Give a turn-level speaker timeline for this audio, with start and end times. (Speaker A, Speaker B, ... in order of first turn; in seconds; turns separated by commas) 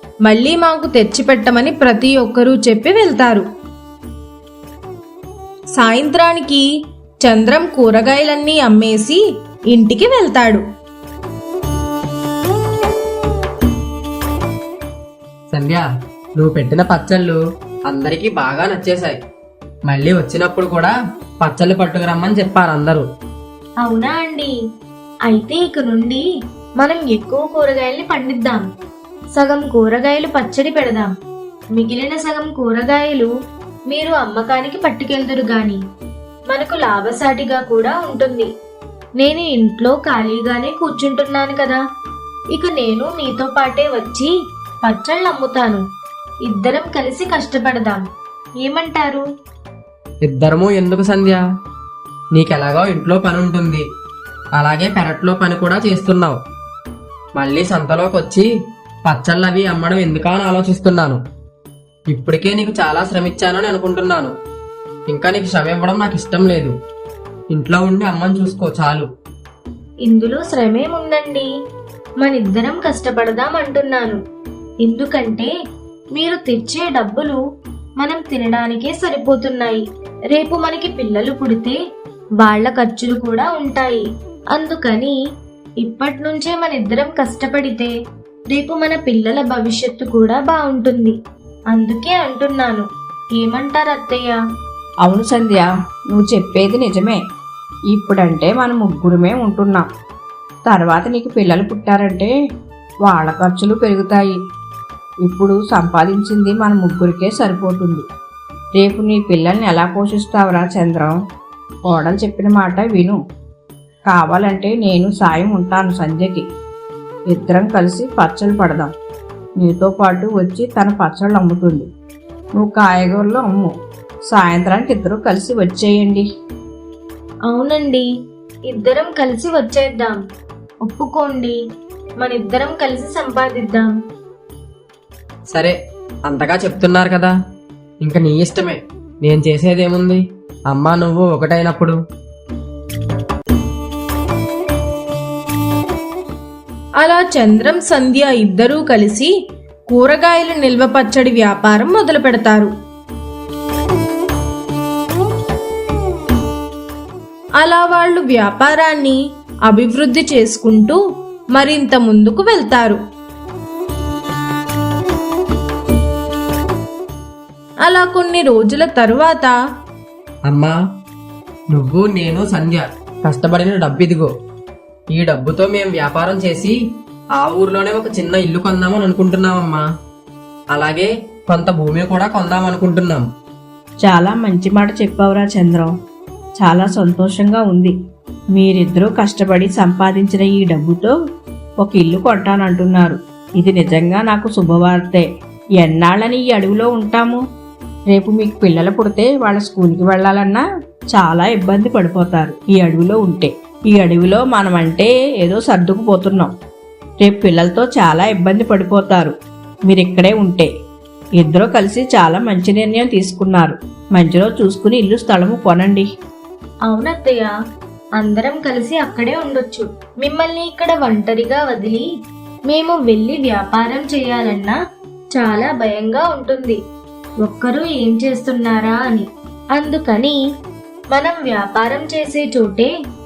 Speaker A: 0.2-3.4, Speaker A: 5.8-6.7, Speaker A: 7.2-10.6, Speaker B: 15.5-15.8, Speaker B: 16.4-19.2, Speaker B: 19.9-23.1, Speaker C: 23.8-24.5, Speaker C: 25.2-26.2, Speaker C: 26.8-28.6, Speaker C: 29.3-31.1, Speaker C: 31.8-33.3, Speaker C: 33.9-35.8, Speaker C: 36.5-38.5, Speaker C: 39.2-41.8, Speaker C: 42.5-44.3, Speaker C: 44.8-45.8, Speaker C: 46.5-48.0, Speaker C: 48.6-49.2, Speaker B: 50.2-51.4, Speaker B: 52.3-53.8, Speaker B: 54.6-56.4, Speaker B: 57.4-58.5, Speaker B: 59.0-61.2, Speaker B: 62.1-64.3, Speaker B: 65.1-66.7, Speaker B: 67.5-69.1, Speaker C: 70.0-71.5, Speaker C: 72.2-74.2, Speaker C: 74.8-75.5, Speaker C: 76.1-77.4, Speaker C: 78.0-81.8, Speaker C: 82.4-85.1, Speaker C: 85.8-87.9, Speaker C: 88.5-91.2, Speaker C: 91.7-92.8, Speaker C: 93.4-94.4, Speaker D: 95.0-97.2, Speaker D: 97.9-99.8, Speaker D: 100.7-102.3, Speaker D: 103.0-104.3, Speaker D: 105.2-108.0, Speaker D: 108.8-111.2, Speaker D: 111.9-113.2, Speaker D: 114.1-116.5, Speaker D: 117.3-118.9, Speaker D: 119.6-121.9, Speaker D: 122.6-123.7, Speaker D: 124.3-126.2, Speaker C: 127.5-128.1, Speaker C: 128.7-130.2, Speaker C: 130.8-131.6, Speaker C: 132.2-133.9, Speaker B: 135.5-135.8, Speaker B: 136.3-137.3, Speaker B: 138.0-141.9, Speaker A: 147.0-149.3, Speaker A: 149.9-152.7, Speaker A: 157.6-161.0, Speaker A: 161.5-163.0, Speaker A: 167.8-169.5, Speaker B: 170.5-170.7, Speaker B: 171.7-174.3, Speaker B: 175.1-176.8, Speaker B: 177.3-179.8, Speaker B: 180.7-183.2, Speaker D: 184.0-185.9, Speaker D: 186.6-187.9, Speaker D: 188.5-191.1, Speaker D: 191.8-195.2, Speaker D: 195.8-197.4, Speaker D: 198.1-206.5, Speaker D: 207.2-209.3, Speaker D: 209.9-210.7, Speaker D: 211.4-216.1, Speaker C: 216.8-217.5, Speaker C: 218.2-222.0, Speaker C: 222.7-224.8, Speaker C: 225.3-226.8, Speaker C: 227.4-230.4, Speaker C: 231.1-232.9